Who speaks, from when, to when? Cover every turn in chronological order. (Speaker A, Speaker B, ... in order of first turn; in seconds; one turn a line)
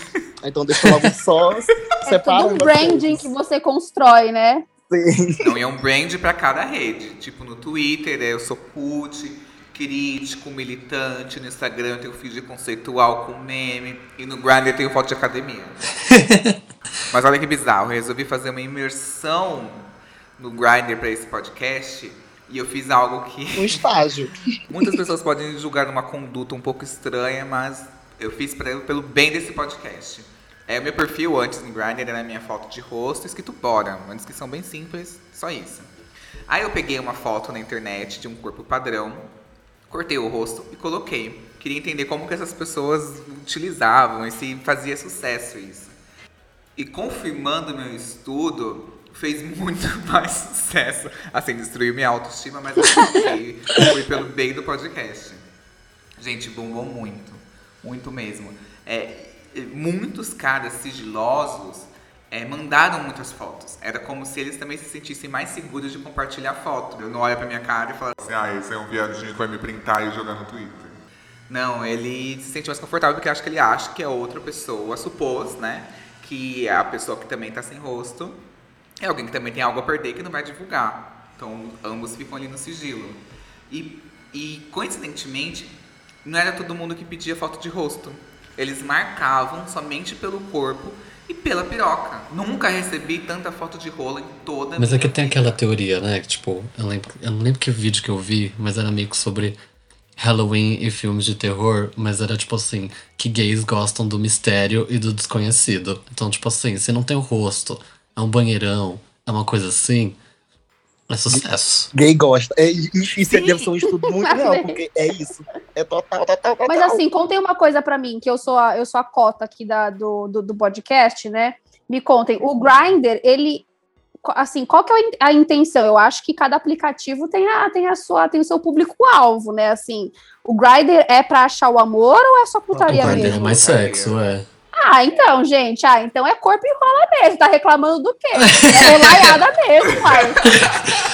Speaker A: 0.4-3.3
Speaker B: 2.1-4.6
Speaker A: 4.9-5.5
Speaker C: 5.4-15.8
Speaker D: 16.1-16.6
Speaker C: 17.1-19.9
Speaker C: 20.4-23.8
Speaker A: 23.6-24.4
Speaker C: 24.7-35.9
Speaker C: 36.5-39.3
Speaker C: 39.9-46.0
Speaker C: 46.8-55.5
Speaker C: 56.2-68.3
Speaker E: 68.3-71.0
Speaker C: 71.5-78.4
Speaker C: 79.0-95.6
Speaker D: 94.8-99.6
Speaker D: 100.2-110.2
Speaker D: 111.1-111.9
Speaker A: 111.3-117.0
Speaker B: 113.3-114.8
Speaker B: 116.7-123.7
Speaker B: 124.2-133.4
Speaker A: 132.8-133.4
Speaker D: 132.9-134.5
Speaker C: 133.4-134.2
Speaker B: 134.8-140.4
Speaker D: 138.4-139.4
Speaker D: 140.5-140.7